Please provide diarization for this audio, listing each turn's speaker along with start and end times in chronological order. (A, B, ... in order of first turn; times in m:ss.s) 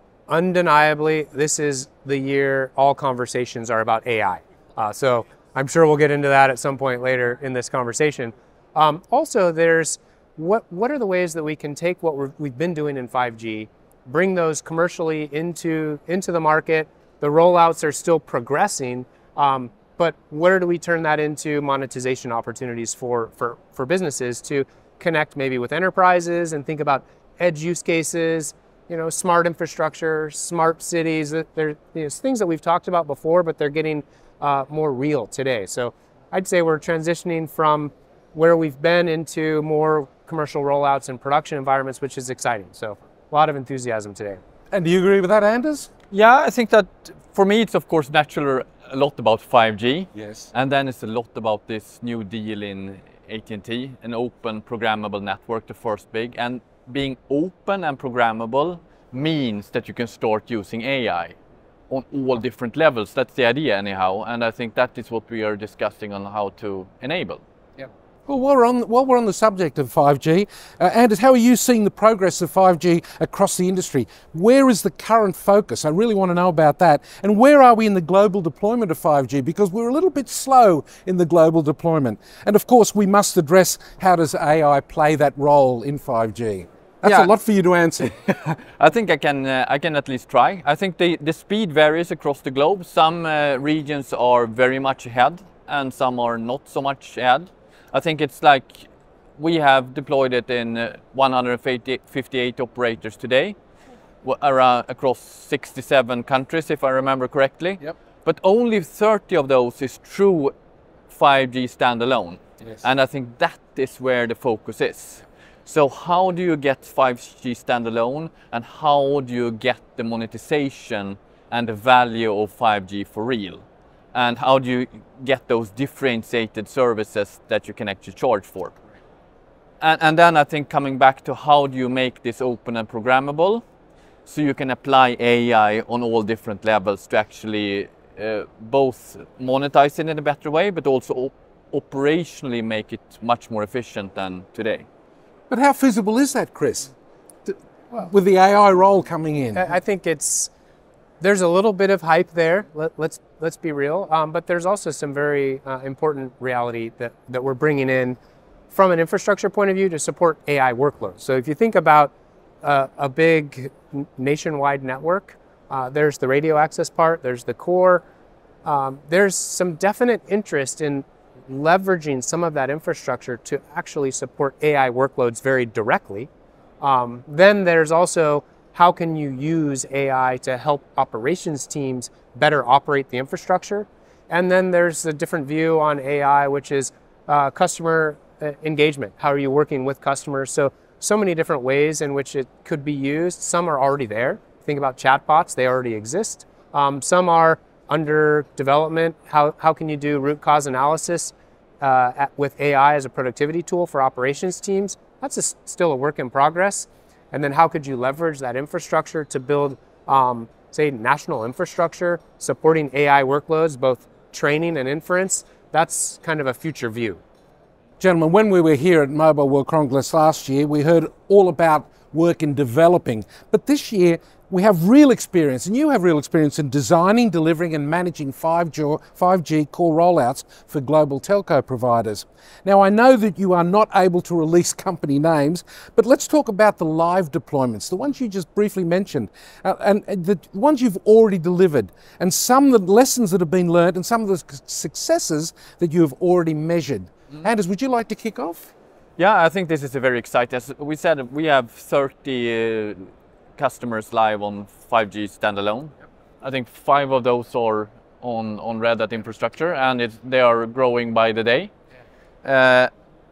0:00.3-0:44.4 A
0:44.7-0:45.9 B
0:46.1-1:01.4 C
0:50.1-0:50.5 B
1:01.9-1:07.4 C
1:08.3-1:28.3 B
1:27.0-1:27.3 C
1:28.7-1:43.6 C
1:44.2-1:50.5 C
1:51.1-2:08.8 C
2:09.8-2:13.6 C
2:14.2-2:24.8 C
2:25.5-2:26.9 B
2:27.4-2:29.6 B
2:29.5-2:30.5 A
2:31.2-2:38.2 A
2:38.7-2:48.0 A
2:48.6-2:56.3 A
2:56.8-3:37.2 A
3:38.0-4:08.7 B
4:09.2-4:21.7 C
4:22.4-4:22.9 C